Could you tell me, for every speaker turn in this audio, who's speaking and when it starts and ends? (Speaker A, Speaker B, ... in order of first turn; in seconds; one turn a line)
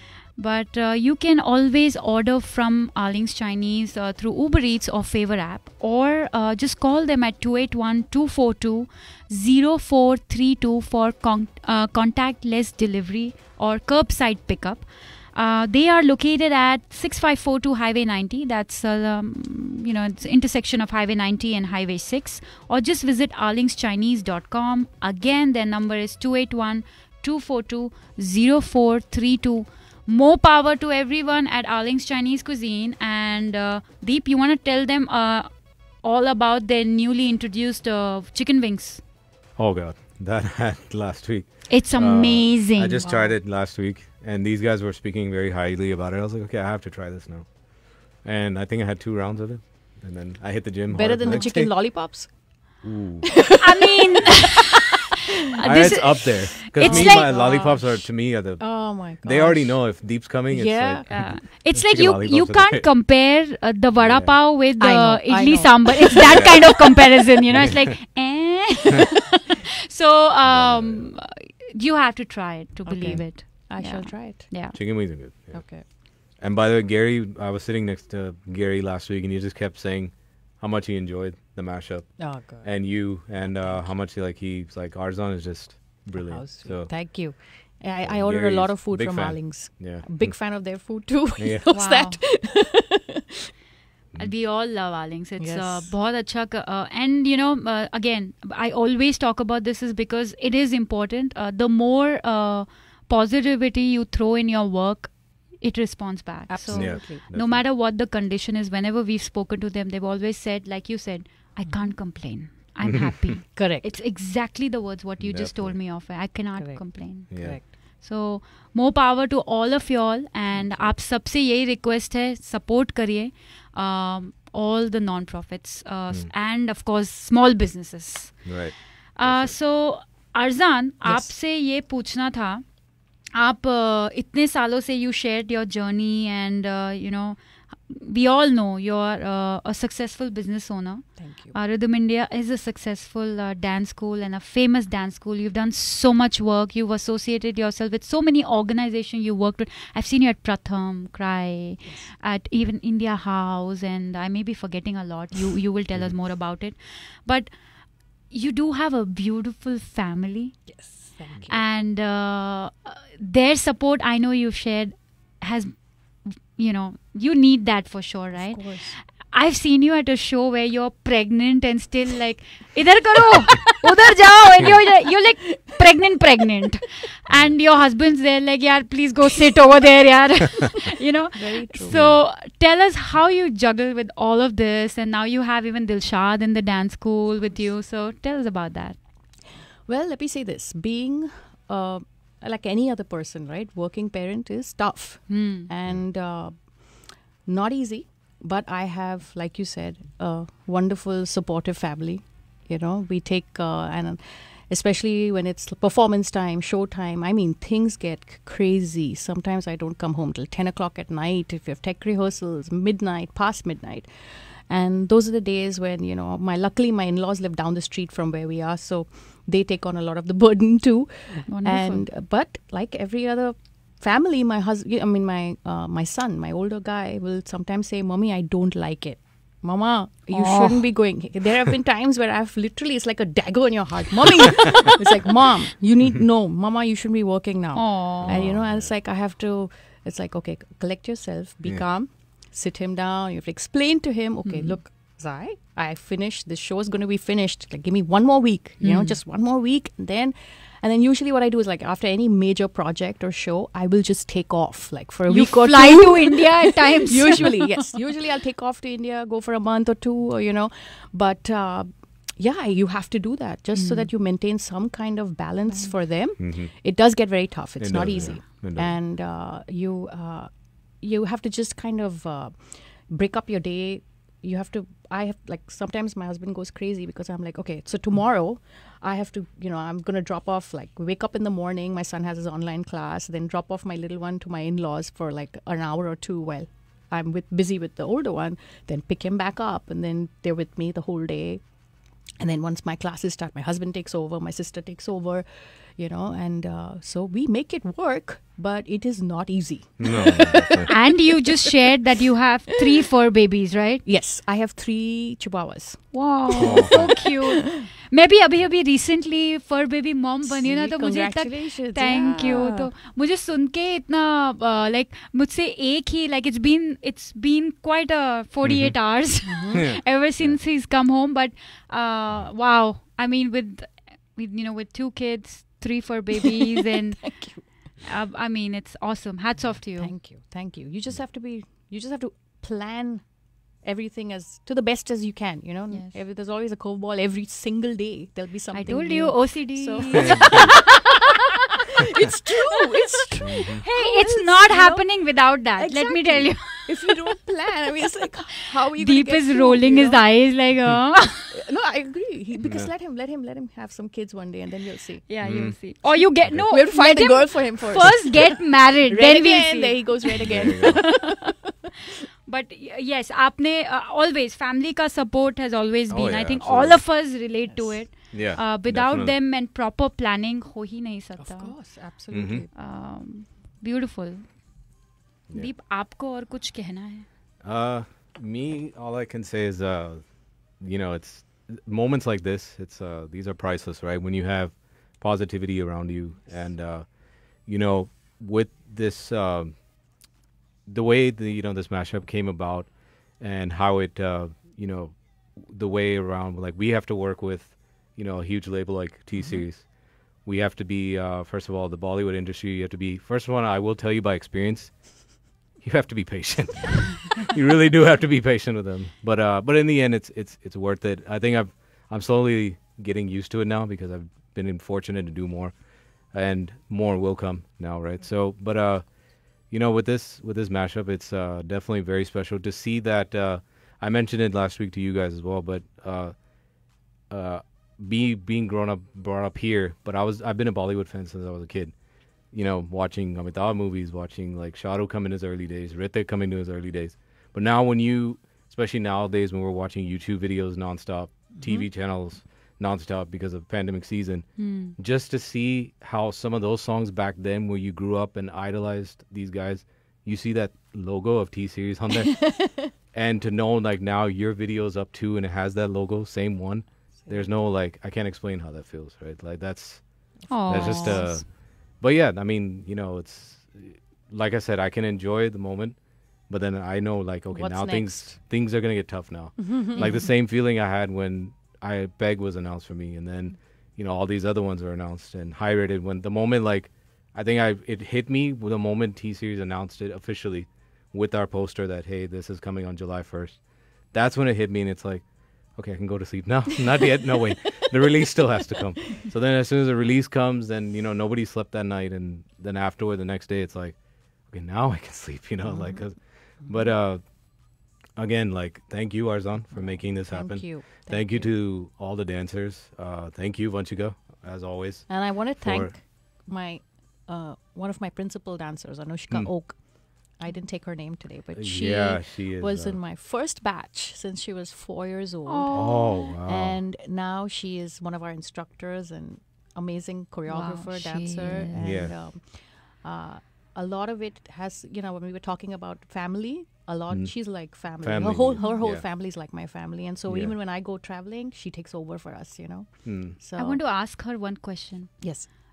Speaker A: 0.4-39.0
Speaker B: 39.6-47.5
Speaker A: 41.7-43.0
Speaker C: 43.0-43.4
Speaker B: 48.1-52.0
Speaker C: 50.9-52.4
Speaker A: 51.2-51.5
Speaker B: 52.8-53.6
Speaker C: 53.6-54.6
Speaker A: 53.6-54.6
Speaker A: 55.6-57.6
Speaker B: 55.6-62.9
Speaker C: 56.8-61.2
Speaker A: 61.1-74.8
Speaker B: 64.0-64.4
Speaker C: 64.8-67.2
Speaker B: 66.2-66.8
Speaker B: 67.5-68.0
Speaker B: 70.5-71.1
Speaker C: 72.8-74.5
Speaker B: 74.7-87.0
Speaker C: 75.5-75.8
Speaker C: 82.2-83.9
Speaker C: 86.2-93.5
Speaker B: 88.0-90.7
Speaker B: 91.4-91.6
Speaker A: 91.7-92.2
Speaker A: 94.2-128.5
Speaker C: 95.4-95.9
Speaker C: 106.5-107.2
Speaker B: 106.7-107.6
Speaker C: 111.7-111.9
Speaker B: 112.8-113.4
Speaker C: 113.5-113.9
Speaker B: 115.2-115.8
Speaker C: 116.6-117.7
Speaker B: 117.3-117.6
Speaker C: 120.5-121.0
Speaker B: 128.4-129.6
Speaker A: 129.2-132.7
Speaker C: 131.1-131.3
Speaker A: 133.3-157.5
Speaker C: 141.2-141.6
Speaker C: 151.8-152.1
Speaker A: 158.3-160.7
Speaker C: 160.7-161.6
Speaker A: 161.5-189.0
Speaker C: 168.3-169.0
Speaker B: 177.3-177.6
Speaker C: 181.3-182.1
Speaker B: 181.9-182.2
Speaker C: 189.8-291.6
Speaker A: 195.3-195.7
Speaker A: 221.5-222.1
Speaker A: 230.3-230.9
Speaker A: 237.8-238.4
Speaker B: 238.2-238.9
Speaker A: 244.4-244.8
Speaker A: 248.8-249.2
Speaker A: 255.3-257.6
Speaker A: 263.7-264.1
Speaker B: 266.4-266.7
Speaker B: 267.8-269.0
Speaker C: 292.4-301.7
Speaker B: 300.0-300.9
Speaker A: 300.9-304.0
Speaker C: 304.1-307.9
Speaker A: 306.1-327.4
Speaker B: 306.6-307.0
Speaker C: 310.4-312.9
Speaker B: 318.6-318.9
Speaker C: 319.5-319.9
Speaker B: 319.7-320.6
Speaker C: 327.2-327.7
Speaker A: 328.0-330.1
Speaker C: 330.0-333.3
Speaker C: 333.8-341.1
Speaker A: 335.9-336.2
Speaker A: 338.7-340.9
Speaker B: 340.1-340.7
Speaker C: 341.8-350.2
Speaker B: 343.4-343.8
Speaker A: 343.8-347.1
Speaker A: 349.0-351.4
Speaker C: 351.5-355.3
Speaker B: 352.6-352.9
Speaker A: 355.3-361.3
Speaker B: 355.4-355.8
Speaker C: 356.7-361.7
Speaker B: 360.4-361.1
Speaker A: 362.5-371.8
Speaker B: 366.1-367.2
Speaker C: 367.7-368.0
Speaker B: 368.3-369.4
Speaker C: 371.4-372.7
Speaker B: 372.3-372.7
Speaker A: 372.8-374.5
Speaker B: 375.5-375.7
Speaker A: 375.5-377.3
Speaker B: 377.6-380.2
Speaker B: 380.8-387.1
Speaker B: 387.6-389.8
Speaker B: 390.9-415.8
Speaker B: 416.3-426.4
Speaker B: 427.3-497.2
Speaker C: 441.6-441.9
Speaker A: 444.6-444.9
Speaker C: 452.3-452.9
Speaker C: 457.2-457.5
Speaker C: 460.4-461.4
Speaker A: 460.5-461.4
Speaker C: 467.5-468.4
Speaker C: 469.6-470.3
Speaker C: 495.6-496.1
Speaker C: 496.6-496.9
Speaker B: 498.2-505.9
Speaker C: 499.7-501.5
Speaker C: 505.1-533.8
Speaker B: 511.6-513.0
Speaker A: 515.5-516.4
Speaker B: 515.7-516.8
Speaker A: 520.5-521.8
Speaker B: 521.7-522.2
Speaker B: 527.1-529.1
Speaker B: 530.3-530.5
Speaker B: 533.0-533.4
Speaker A: 533.6-535.3
Speaker C: 535.2-535.5